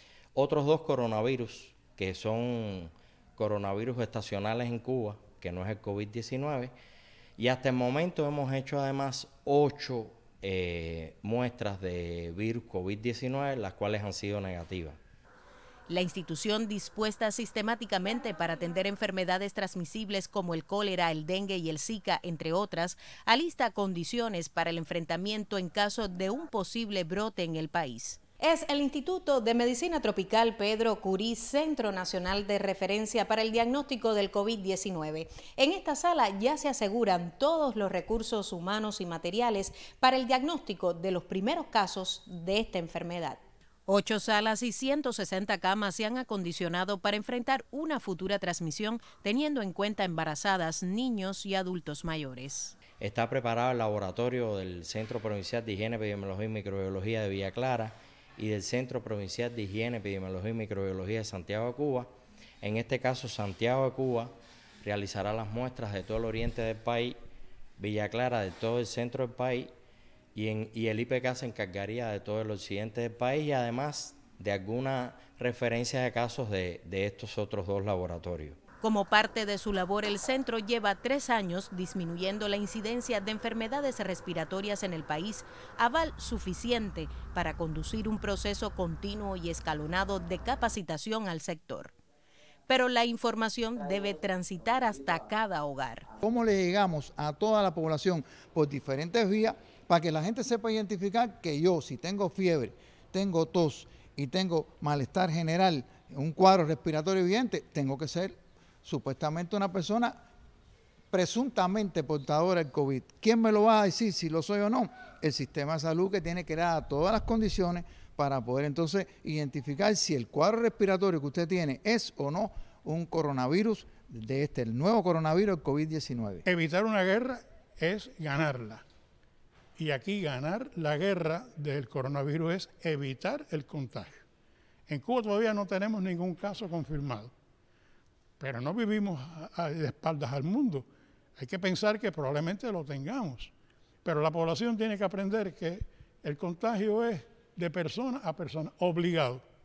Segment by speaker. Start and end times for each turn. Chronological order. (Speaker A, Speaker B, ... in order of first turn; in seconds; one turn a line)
Speaker A: 0.3-6.7
Speaker A: 7.4-15.0
Speaker B: 15.9-52.8
Speaker A: 53.0-62.1
Speaker A: 62.6-67.2
Speaker A: 67.8-69.7
Speaker A: 70.3-78.6
Speaker B: 78.8-92.0
Speaker B: 92.7-96.1
Speaker C: 96.2-110.2
Speaker C: 111.1-126.5
Speaker D: 126.5-128.8
Speaker D: 129.8-134.1
Speaker D: 134.9-137.3
Speaker D: 138.4-140.9
Speaker D: 141.4-143.5
Speaker D: 144.1-149.4